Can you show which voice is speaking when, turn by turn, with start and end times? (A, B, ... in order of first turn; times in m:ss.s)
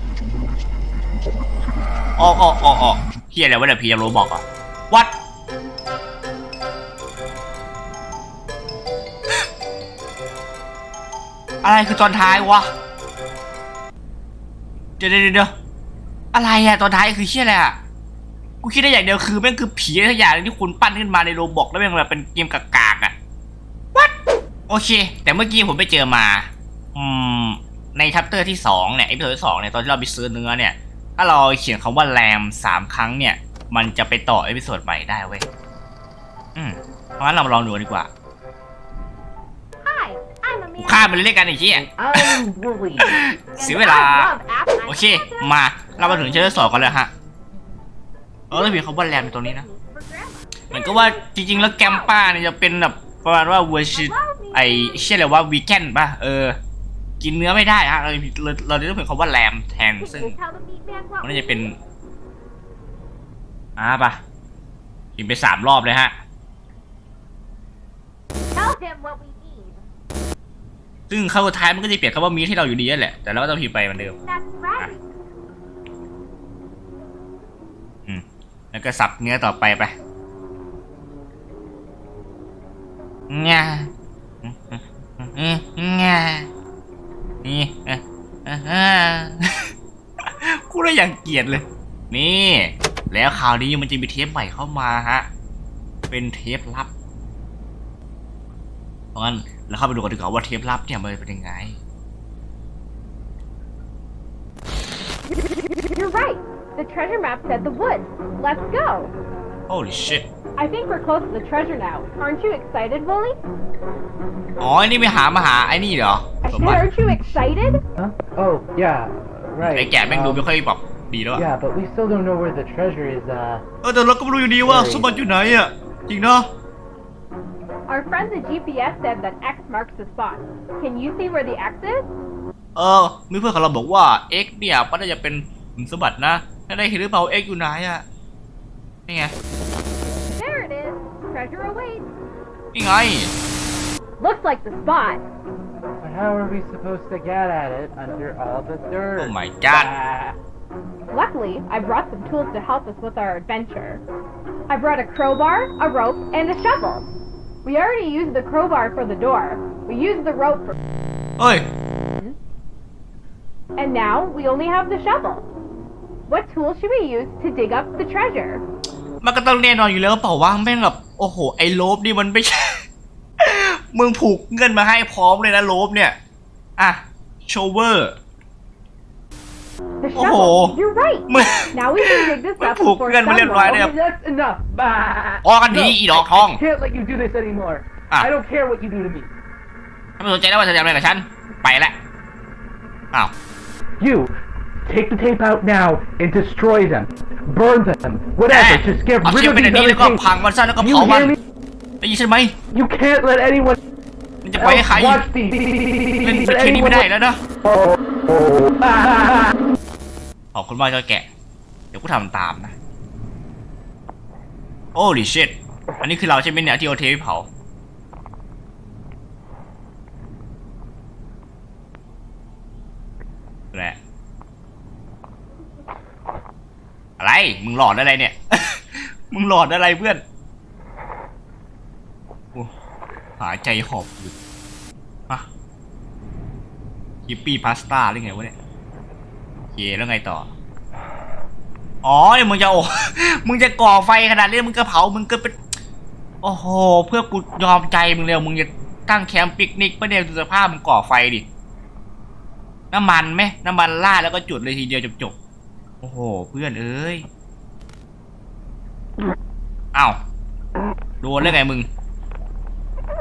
0:02.2-0:05.1 A
0:11.6-0:12.7 A
0:15.0-0:15.5 A
0:16.3-0:17.8 A
0:18.6-0:23.1 A
0:24.7-0:35.4 A
0:36.5-0:38.1 A
0:39.8-0:41.2 B
0:40.8-0:44.3 A
0:41.7-0:43.1 C
0:43.5-0:46.9 B
0:44.8-0:47.1 A
0:48.5-0:49.6 A
0:48.5-0:52.2 B
0:50.7-0:56.6 A
0:53.9-0:55.2 B
0:57.2-1:00.4 A
1:00.0-1:01.7 B
1:01.2-1:01.8 A
1:03.8-1:04.2 A
1:05.2-1:06.1 A
1:08.5-1:09.8 B
1:11.1-1:14.2 A
1:14.2-1:15.0 B
1:18.1-1:19.9 A
1:23.3-1:23.9 A
1:24.4-1:26.5 A
1:27.4-1:29.7 A
1:30.2-1:35.3 A
1:36.1-1:36.9 A
1:39.1-1:41.8 A
1:45.8-1:49.1 B
1:49.7-1:50.3 A
1:50.6-1:53.4 B
1:54.6-1:56.9 A
1:56.4-1:57.8 B
1:58.0-2:00.5 C
1:59.6-2:01.4 A
2:01.3-2:03.6 C
2:03.8-2:06.5 A
2:04.6-2:05.1 C
2:07.9-2:12.1 B
2:12.8-2:18.0 A
2:19.1-2:19.3 A
2:20.3-2:22.1 B
2:22.7-2:23.3 A
2:24.2-2:25.2 B
2:26.0-2:30.4 C
2:29.2-2:29.9 A
2:31.1-2:34.0 B
2:34.7-2:37.1 B
2:37.6-2:40.8 B
2:41.4-2:41.6 A
2:43.8-2:45.4 B
2:46.3-2:48.6 B
2:49.2-2:52.8 A
2:53.4-2:56.2 A
2:56.8-2:58.1 A
3:00.0-3:03.8 B
3:00.1-3:00.8 A
3:01.3-3:03.9 A
3:03.4-3:09.3 C
3:05.4-3:06.6 A
3:10.2-3:12.0 A
3:14.0-3:14.3 C
3:14.8-3:20.2 C
3:18.5-3:21.4 A
3:20.8-3:21.4 C
3:22.0-3:22.5 A
3:22.7-3:23.8 C
3:24.4-3:25.2 A
3:24.6-3:27.1 C
3:26.2-3:27.4 A
3:27.6-3:29.5 C
3:30.5-3:31.3 A
3:31.9-3:32.7 A
3:34.9-3:37.5 A
3:43.7-3:44.0 A
3:47.2-3:50.2 A
3:53.4-3:54.3 A
3:57.2-3:58.6 A
3:59.7-4:00.5 A
4:02.0-4:05.6 A
4:06.4-4:11.4 A
4:12.9-4:15.3 A
4:16.0-4:17.3 A
4:19.9-4:20.2 A
4:21.2-4:21.9 A